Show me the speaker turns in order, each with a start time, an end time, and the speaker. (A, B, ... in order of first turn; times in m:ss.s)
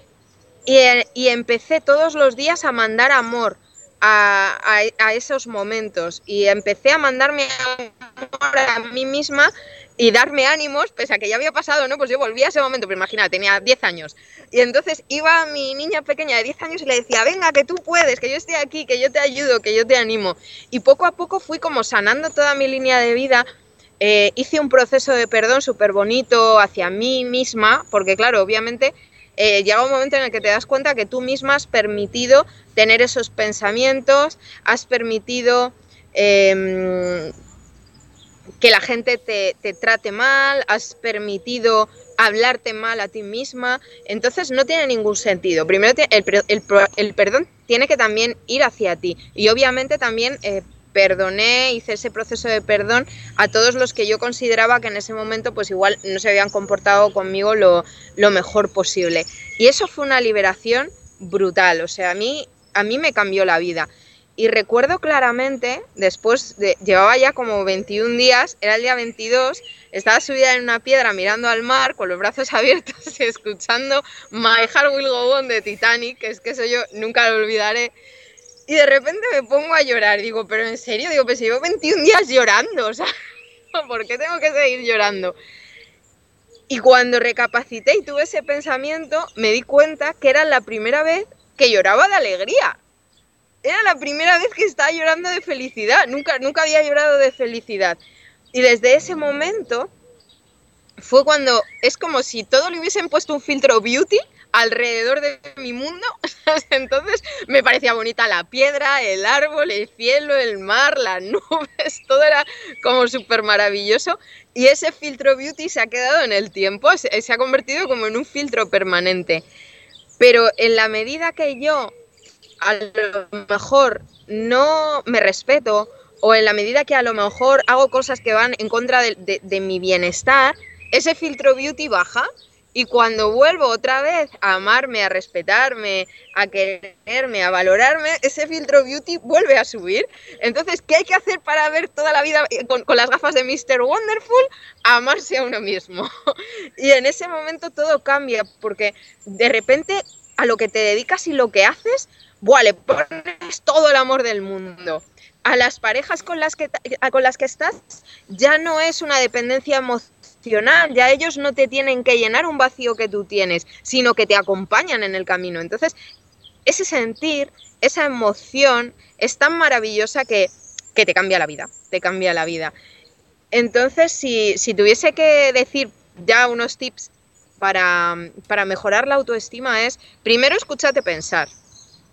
0:00.6-0:23.4 A
0:24.0-0:37.3 A
0:38.6-1:17.9 A
1:18.7-1:23.1 A
1:23.7-1:25.4 A
1:26.7-1:32.8 A
1:33.6-1:38.0 A
1:38.5-1:39.9 A
1:41.0-1:59.4 A
2:00.2-2:01.9 A
2:02.6-2:26.1 A
2:26.8-2:46.0 A
2:46.6-2:52.7 A
2:53.5-3:01.5 A